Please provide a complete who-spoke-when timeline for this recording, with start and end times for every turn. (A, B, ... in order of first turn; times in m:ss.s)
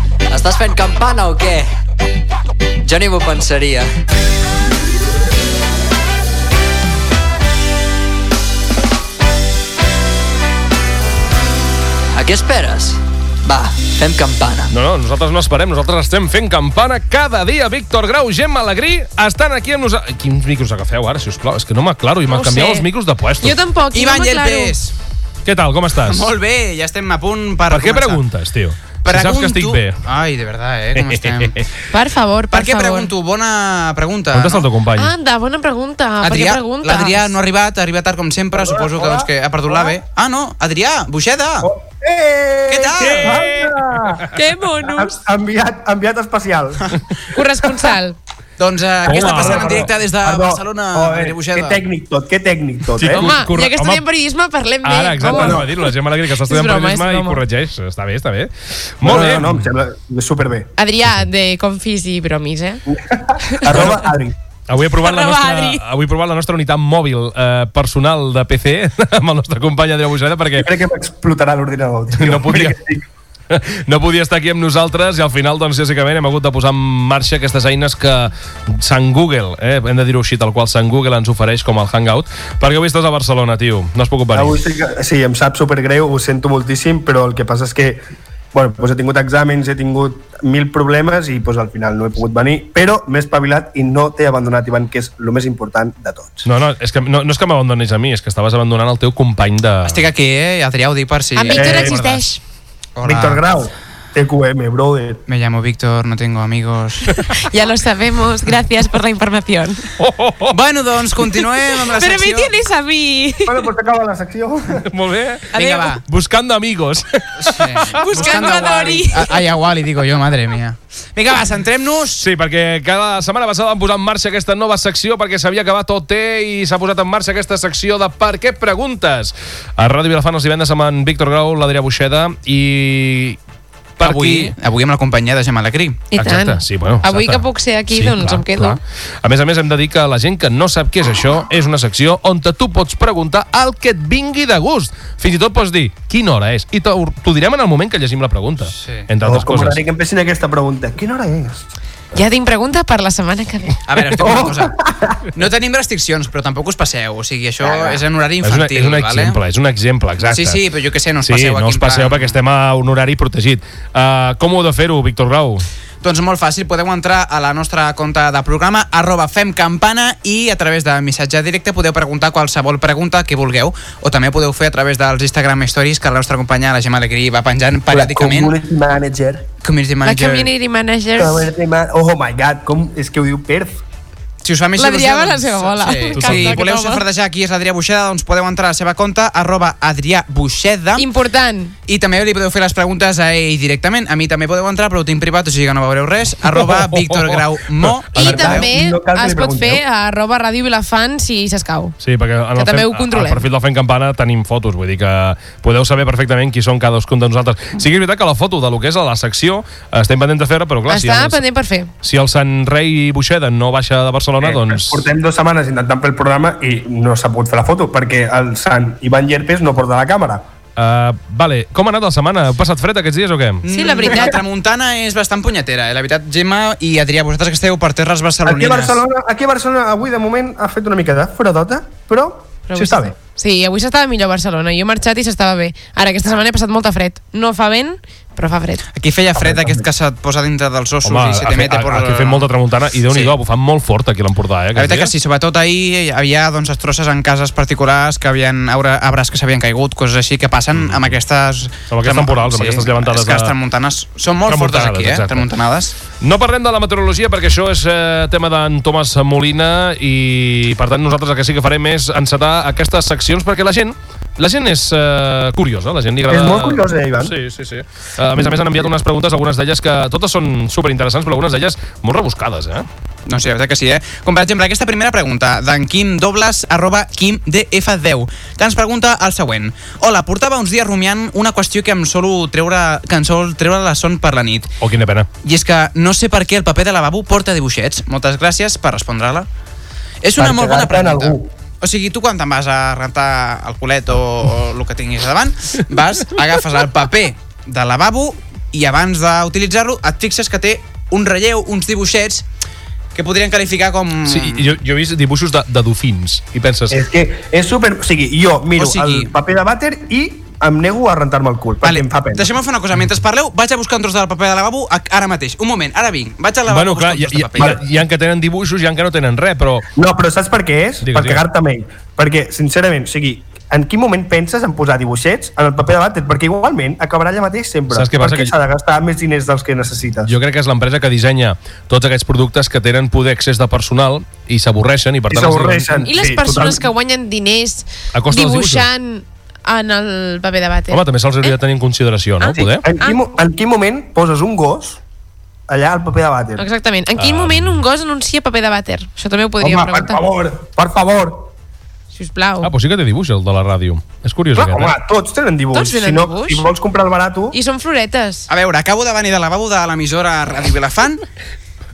0:00.3-0:01.7 A
0:02.8-0:03.9 A
0:12.1-0:14.7 A
0:14.7-0:23.6 B
0:22.3-0:22.9 C
0:23.4-0:24.8 C
0:23.9-0:24.9 D
0:25.4-0:26.3 B
0:26.0-0:28.2 D
0:27.7-0:30.0 B
0:29.0-0:31.5 D
0:31.0-0:31.7 B
0:31.9-0:33.1 C
0:32.5-0:34.7 D
0:34.3-0:35.1 B
0:35.0-0:37.3 C
0:36.2-0:41.7 D
0:38.6-0:40.0 E
0:41.6-0:44.3 E
0:42.7-0:43.6 D
0:43.0-0:44.3 B
0:44.3-0:45.2 C
0:44.8-0:47.0 E
0:47.3-0:48.2 C
0:48.6-0:51.8 D
0:49.0-0:53.4 E
0:49.1-0:49.8 B
0:53.0-0:54.0 B
0:53.1-0:57.4 C
0:54.8-0:59.7 B
0:55.2-0:55.7 E
0:59.0-1:00.7 E
1:00.8-1:02.8 C
1:02.9-1:04.4 E
1:03.4-1:04.0 C
1:03.7-1:04.0 B
1:04.7-1:10.7 B
1:05.0-1:05.8 C
1:10.6-1:13.1 E
1:12.2-1:12.8 B
1:13.5-1:24.6 B
1:24.3-1:36.5 E
1:36.4-1:40.0 B
1:39.8-1:42.3 D
1:41.4-1:42.4 C
1:41.5-1:42.0 E
1:43.0-1:43.4 D
1:43.0-1:45.2 E
1:45.3-1:47.3 D
1:47.4-1:49.9 C
1:50.0-1:50.6 B
1:50.5-1:52.5 D
1:51.8-1:53.7 C
1:53.5-1:54.9 E
1:54.8-1:58.4 B
1:55.5-1:56.0 C
1:55.5-1:56.0 D
1:57.4-2:02.2 D
1:58.0-1:59.3 C
1:58.7-1:59.0 E
2:02.2-2:13.4 B
2:14.0-2:14.5 B
2:14.0-2:16.1 D
2:16.1-2:18.8 C
2:16.2-2:29.8 B
2:28.8-2:29.1 D
2:29.2-2:31.7 E
2:32.1-2:33.8 C
2:33.9-2:34.8 D
2:34.1-2:35.3 E
2:35.3-2:39.4 D
2:37.6-2:38.0 E
2:38.4-2:40.6 B
2:40.2-2:42.4 D
2:41.2-2:45.6 B
2:46.0-2:58.5 D
2:57.9-2:59.5 E
2:59.6-3:00.5 D
3:00.0-3:01.5 C
3:01.2-3:03.8 E
3:04.4-3:11.1 D
3:04.8-3:07.0 C
3:06.1-3:06.6 B
3:11.0-3:11.7 C
3:11.9-3:18.7 D
3:16.5-3:18.0 B
3:18.1-3:19.8 E
3:18.1-3:22.0 C
3:22.0-3:31.4 B
3:22.6-3:23.4 C
3:30.9-3:31.9 C
3:32.0-3:35.0 B
3:34.4-3:40.4 E
3:40.8-3:43.6 B
3:43.6-3:49.0 D
3:43.7-3:44.4 C
3:48.4-3:53.2 E
3:52.7-3:58.8 C
3:59.0-4:02.5 D
3:59.4-3:59.8 E
4:01.0-4:05.1 B
4:03.1-4:03.4 D
4:04.8-4:16.0 D
4:10.8-4:11.1 B
4:11.9-4:13.5 B
4:14.5-4:15.5 B
4:16.2-4:32.9 B
4:26.3-4:27.4 E
4:33.3-4:44.8 D
4:44.8-4:45.3 B
4:45.4-4:49.5 D
4:50.2-5:02.5 D
4:50.4-4:51.5 E
5:03.2-5:04.6 D
5:04.3-5:07.0 B
5:06.9-5:12.5 E
5:08.8-5:09.3 D
5:11.8-5:17.8 D
5:16.7-5:19.8 B
5:20.0-5:30.3 E
5:21.0-5:21.4 B
5:27.9-5:28.5 B
5:30.2-5:36.1 B
5:35.3-5:36.8 E
5:36.0-5:41.6 C
5:38.1-5:38.9 B
5:40.9-5:42.8 B
5:42.4-5:43.2 C
5:42.5-5:45.0 E
5:45.7-5:46.6 E
5:46.6-5:50.2 C
5:47.2-5:47.8 B
5:49.6-5:51.5 E
5:52.1-5:52.7 C
5:52.6-5:55.0 B
5:54.6-5:57.6 E
5:55.7-5:56.7 C
5:57.5-5:58.5 C
5:58.5-6:01.3 D